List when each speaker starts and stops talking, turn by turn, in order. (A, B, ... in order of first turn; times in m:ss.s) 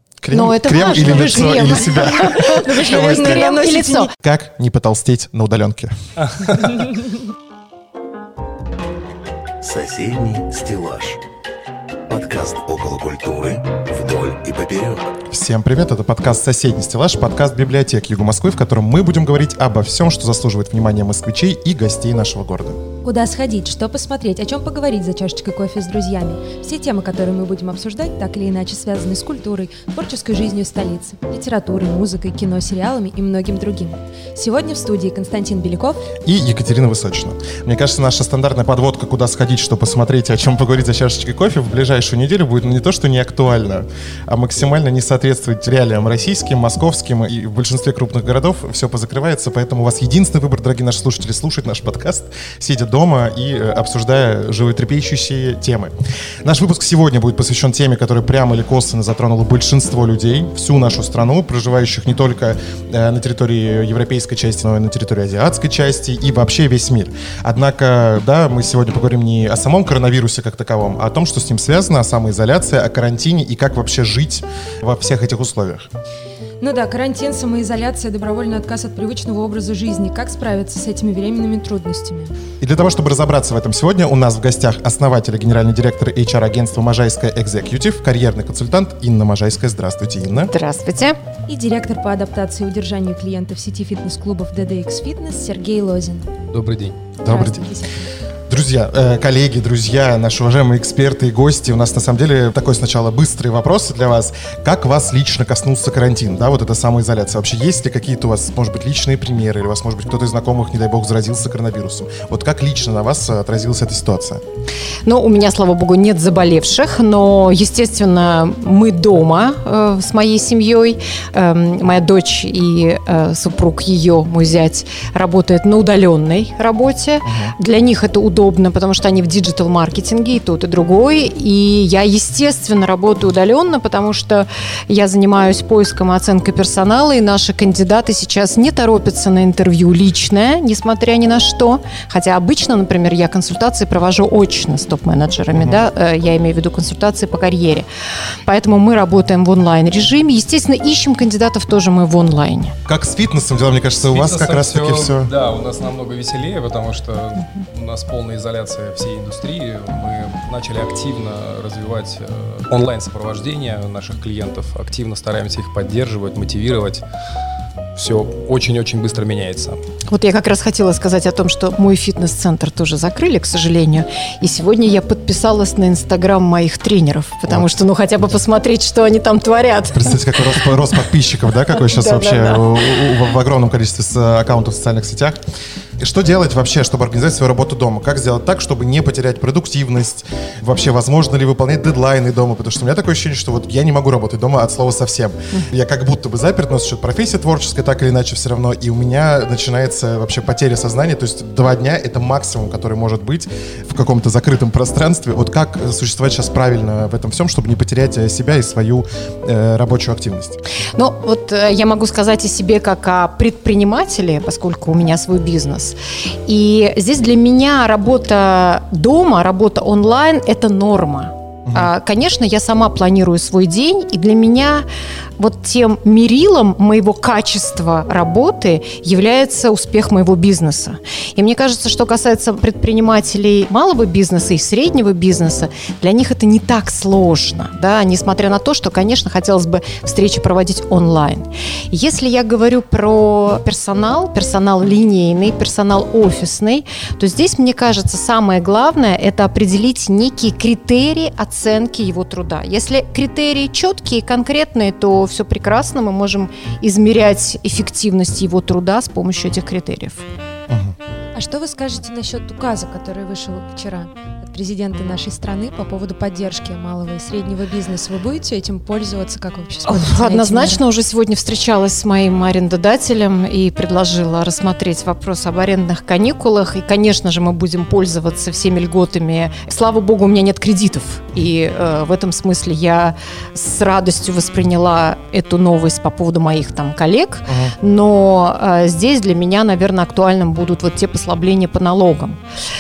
0:00.2-0:03.5 A
0:00.3-0:04.1 B
0:00.9-0:04.1 C
0:04.2-0:05.9 A
0:06.2-0:06.8 D
0:09.6-0:11.2 E
0:12.1-0:15.1 E
0:15.3-0:22.8 A
0:23.0-0:36.0 C
0:36.3-1:15.9 A
1:16.6-1:22.3 C
1:22.6-1:30.5 A
1:30.3-1:31.2 B
1:31.5-1:36.3 C
1:36.5-1:37.0 D
1:37.2-1:37.7 A
1:37.3-1:38.0 C
1:38.5-1:54.4 A
1:55.0-2:27.9 B
2:07.2-2:07.5 A
2:28.5-2:32.8 B
2:32.9-2:35.3 A
2:34.0-2:47.0 D
2:48.0-2:49.8 D
2:50.1-3:00.7 B
2:59.9-3:05.4 A
3:01.7-3:03.1 B
3:06.0-3:30.6 A
3:31.0-3:44.8 B
3:45.4-4:20.3 B
4:20.7-4:21.0 A
4:21.4-4:30.8 C
4:29.9-4:52.4 B
4:47.5-4:47.8 A